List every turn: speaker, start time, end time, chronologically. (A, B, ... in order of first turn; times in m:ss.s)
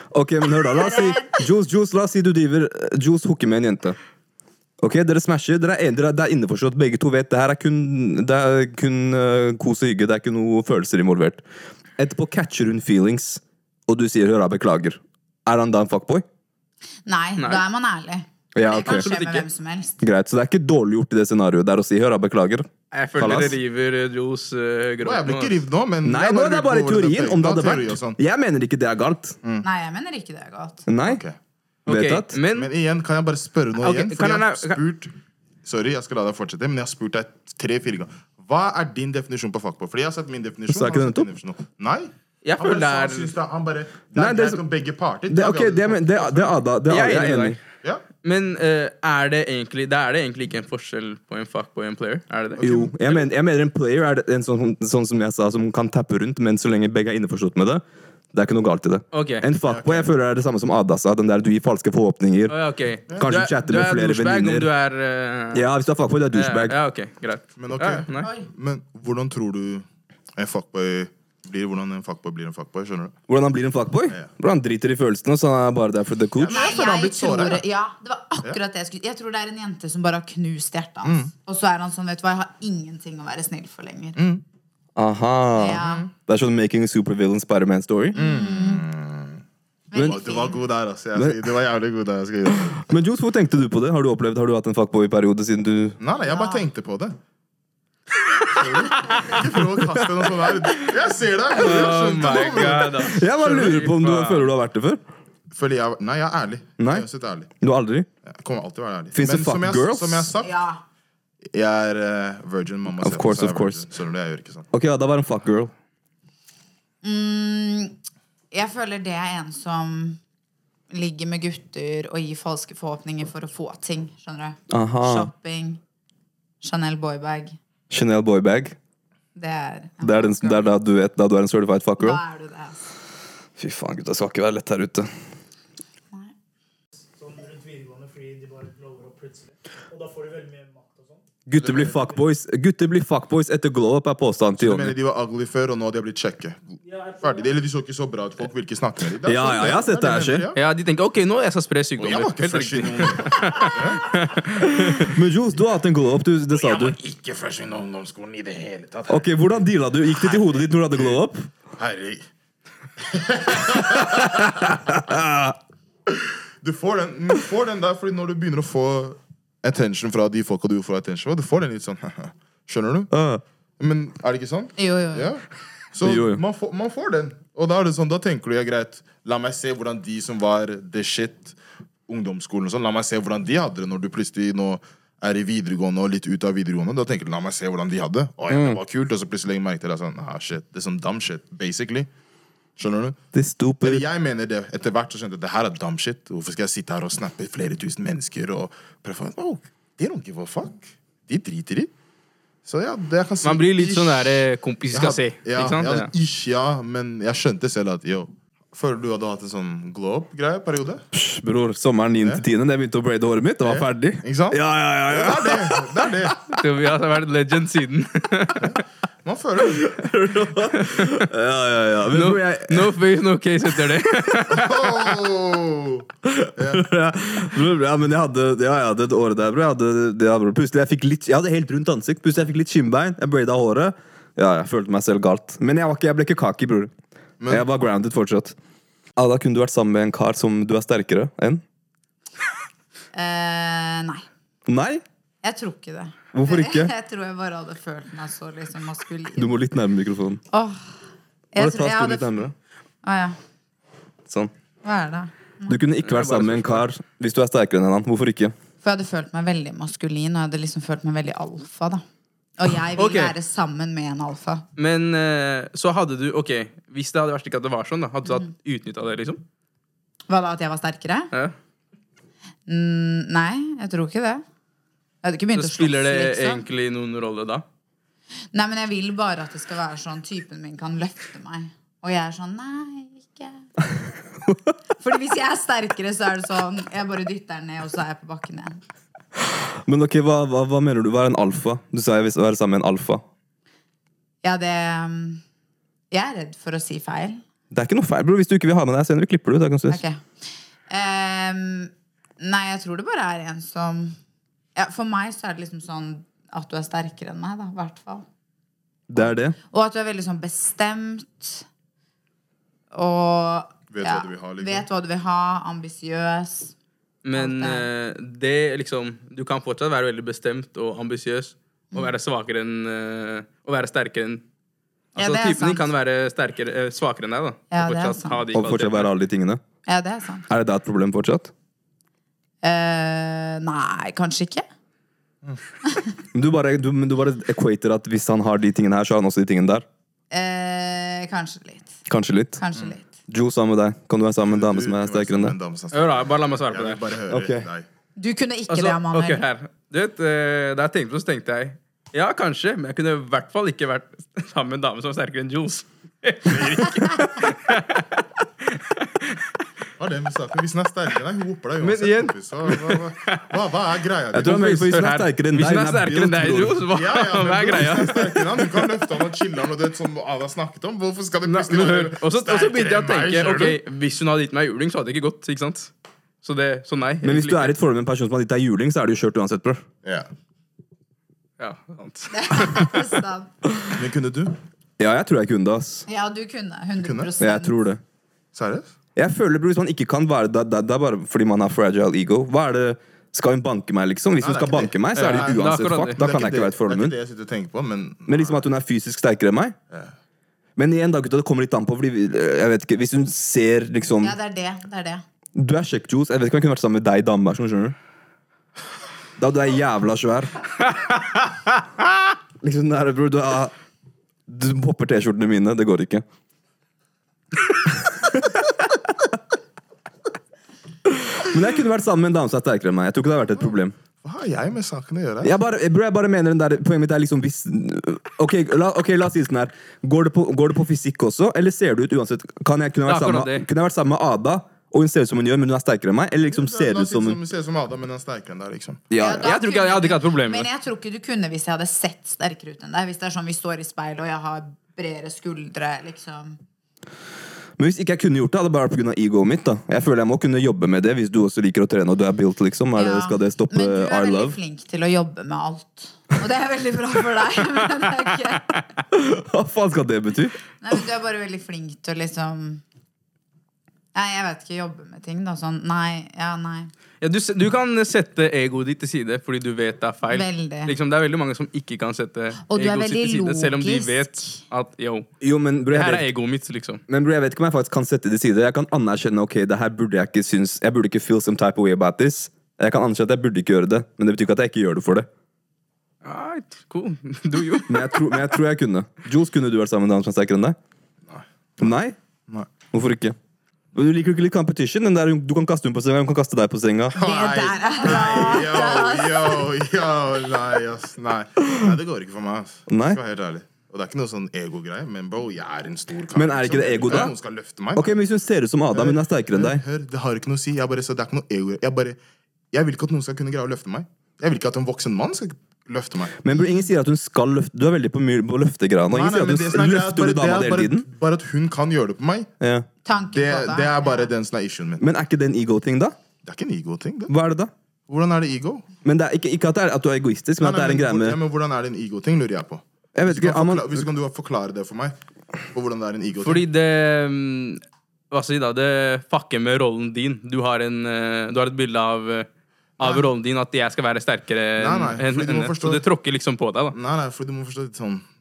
0:00.1-0:04.0 A
0:00.6-0:01.4 B
0:04.8-0:11.4 A
0:12.0-0:16.2 A
0:17.0-0:20.0 B
0:18.5-0:19.1 A
0:18.8-0:19.5 C
0:20.0-0:23.6 A
0:22.9-0:25.6 C
0:25.0-0:28.2 D
0:26.0-0:29.4 A
0:29.6-0:30.8 B
0:30.9-0:31.2 A
0:31.0-0:31.4 D
0:31.8-0:32.7 C
0:31.9-0:32.4 A
0:32.4-0:35.1 D
0:33.8-0:34.8 C
0:35.6-0:46.6 D
0:40.7-0:41.3 A
0:42.4-0:43.3 C
0:44.2-0:44.6 A
0:45.3-0:47.6 A
0:46.9-0:47.6 C
0:48.2-0:52.6 C
0:52.6-0:52.9 D
0:52.6-0:57.8 A
0:58.3-1:02.5 A
0:59.1-0:59.4 C
0:59.6-1:00.1 D
1:02.5-1:05.6 C
1:03.2-1:04.7 A
1:05.5-1:06.8 A
1:06.3-1:08.3 C
1:07.6-1:13.2 D
1:08.2-1:08.5 B
1:13.3-1:16.7 A
1:16.4-1:17.6 D
1:16.4-1:24.2 B
1:21.0-1:21.3 D
1:24.2-1:24.4 D
1:25.0-1:28.3 A
1:25.6-1:26.1 B
1:25.7-1:26.1 D
1:28.1-1:28.8 B
1:28.1-1:29.4 D
1:29.9-1:30.6 B
1:29.9-1:32.8 D
1:31.1-1:31.5 A
1:32.7-1:36.0 A
1:36.0-1:37.2 D
1:36.2-1:36.7 B
1:38.5-1:43.2 D
1:41.5-1:44.5 C
1:43.0-1:45.0 A
1:45.5-1:47.5 D
1:46.8-1:47.0 A
1:47.6-1:48.1 A
1:48.2-1:50.5 D
1:49.1-1:50.3 A
1:50.4-1:50.8 B
1:51.5-1:54.6 D
1:53.0-1:53.9 A
1:54.7-1:55.7 A
1:57.0-1:57.9 B
1:58.5-2:00.2 B
2:00.9-2:05.8 B
2:04.7-2:05.3 A
2:06.6-2:07.6 B
2:07.9-2:08.8 A
2:09.4-2:10.7 B
2:10.0-2:12.2 A
2:12.0-2:12.8 B
2:13.6-2:15.1 A
2:17.1-2:21.2 E
2:21.5-2:24.9 A
2:21.6-2:21.9 D
2:21.8-2:22.2 E
2:24.6-2:30.6 D
2:26.8-2:27.6 E
2:29.2-2:30.5 A
2:30.6-2:35.1 C
2:32.0-2:34.2 D
2:34.6-2:37.0 A
2:36.5-2:39.5 D
2:39.1-2:41.5 A
2:40.9-2:41.2 D
2:41.8-2:42.2 D
2:43.0-2:44.8 D
2:43.7-2:45.6 A
2:46.1-2:53.1 D
2:53.1-2:53.4 A
2:53.8-3:01.6 D
2:54.8-2:55.3 B
2:56.0-2:56.4 A
3:02.1-3:12.1 D
3:08.5-3:08.8 A
3:12.8-3:13.2 D
3:13.3-3:14.0 A
3:13.8-3:21.9 D
3:22.6-3:31.0 D
3:23.4-3:26.1 C
3:31.1-3:36.3 A
3:33.6-3:36.4 D
3:36.5-3:38.7 C
3:38.6-3:40.0 D
3:39.7-3:43.0 A
3:40.8-3:41.2 C
3:42.1-3:44.9 C
3:44.5-3:46.8 D
3:46.2-3:56.9 A
3:57.4-3:57.6 D
3:57.5-3:58.6 A
3:59.2-4:01.6 A
4:03.1-4:04.2 B
4:04.7-4:05.0 A
4:05.4-4:09.6 B
4:06.3-4:06.9 A
4:09.4-4:10.4 A
4:10.5-4:10.9 B
4:11.5-4:12.4 B
4:11.6-4:12.5 A
4:13.0-4:13.4 B
4:14.2-4:14.5 A
4:14.8-4:15.8 B
4:15.7-4:18.5 A
4:16.0-4:16.8 C
4:18.8-4:22.0 B
4:22.6-4:24.6 B
4:23.0-4:23.3 C
4:24.8-4:29.4 C
4:30.3-4:31.3 B
4:32.7-4:34.4 B
4:35.2-4:36.6 B
4:35.5-4:37.6 C
4:38.5-4:43.7 B
4:45.0-4:48.8 B
4:49.8-4:53.2 A
4:54.4-4:55.4 B
4:56.1-4:57.4 B
4:57.7-5:00.0 A
4:59.9-5:00.2 B
5:00.9-5:04.2 B
5:04.7-5:08.2 B
5:09.1-5:09.6 A
5:09.2-5:11.6 B
5:12.9-5:16.7 B
5:13.9-5:14.9 D
5:17.2-5:24.4 C
5:17.3-5:17.9 B
5:25.2-5:25.9 B
5:25.2-5:29.1 C
5:27.7-5:28.4 B
5:28.5-5:29.6 A
5:29.8-5:30.5 B
5:30.5-5:31.5 A
5:32.6-5:34.6 B
5:36.3-5:39.8 A
5:40.3-5:42.0 B
5:42.1-5:42.6 A
5:42.6-5:43.0 B
5:43.3-5:45.5 A
5:44.4-5:47.8 D
5:45.9-5:47.0 C
5:47.3-5:47.7 A
5:48.2-5:49.4 B
5:48.7-5:59.4 C
6:00.0-6:04.8 D
6:01.8-6:03.4 C
6:04.3-6:06.9 A
6:04.4-6:08.9 C
6:06.9-6:13.8 D
6:11.4-6:15.9 C
6:16.4-6:17.7 C
6:17.2-6:19.8 A
6:21.6-6:23.0 C
6:22.3-6:23.9 B
6:23.9-6:24.6 D
6:25.0-6:26.0 A
6:26.1-6:27.7 B
6:27.0-6:27.3 D
6:27.4-6:28.0 A
6:28.5-6:28.9 D
6:29.2-6:37.1 A
6:34.4-6:38.6 D
6:35.1-6:36.2 C
6:38.3-6:39.8 A
6:40.8-6:44.4 A
6:44.2-6:45.2 B
6:45.5-6:47.9 A
6:49.4-6:50.5 A
6:52.6-6:53.7 A
6:54.5-6:56.2 A
6:57.8-6:58.9 A
7:01.1-7:03.9 A
7:04.2-7:05.6 D
7:05.4-7:17.4 A
7:13.0-7:13.6 C
7:16.4-7:19.0 D
7:19.1-7:19.5 A
7:19.2-7:26.6 B
7:19.4-7:20.7 C
7:27.8-7:34.6 A
7:33.0-7:38.8 B
7:39.1-7:40.6 A
7:40.8-7:42.8 B
7:44.1-7:46.9 B
7:47.2-7:55.3 C
7:50.3-7:50.9 B
7:52.7-7:54.6 B
7:55.4-7:56.2 A
7:55.9-7:57.0 C
7:57.1-8:05.3 A
8:06.2-8:08.3 C
8:07.9-8:10.8 A
8:11.3-8:12.0 D
8:11.8-8:12.2 A
8:12.9-8:13.4 A
8:13.9-8:17.2 A
8:17.1-8:19.7 B
8:17.1-8:28.1 D
8:22.9-8:23.2 A
8:26.3-8:27.3 A
8:27.9-8:29.8 A
8:28.9-8:32.2 D
8:32.7-8:36.4 D
8:36.4-8:41.1 A
8:39.1-8:42.5 D
8:42.6-8:42.9 A
8:43.0-8:44.3 B
8:43.3-8:45.0 D
8:45.0-8:46.2 A
8:46.4-8:47.3 D
8:47.3-8:47.7 A
8:48.1-8:48.8 D
8:49.0-8:51.4 A
8:50.6-8:55.1 D
8:53.1-8:54.0 A
8:55.7-8:56.6 D
8:56.4-9:02.5 C
9:03.0-9:07.0 C
9:03.0-9:03.3 D
9:04.8-9:06.0 D
9:06.9-9:08.2 D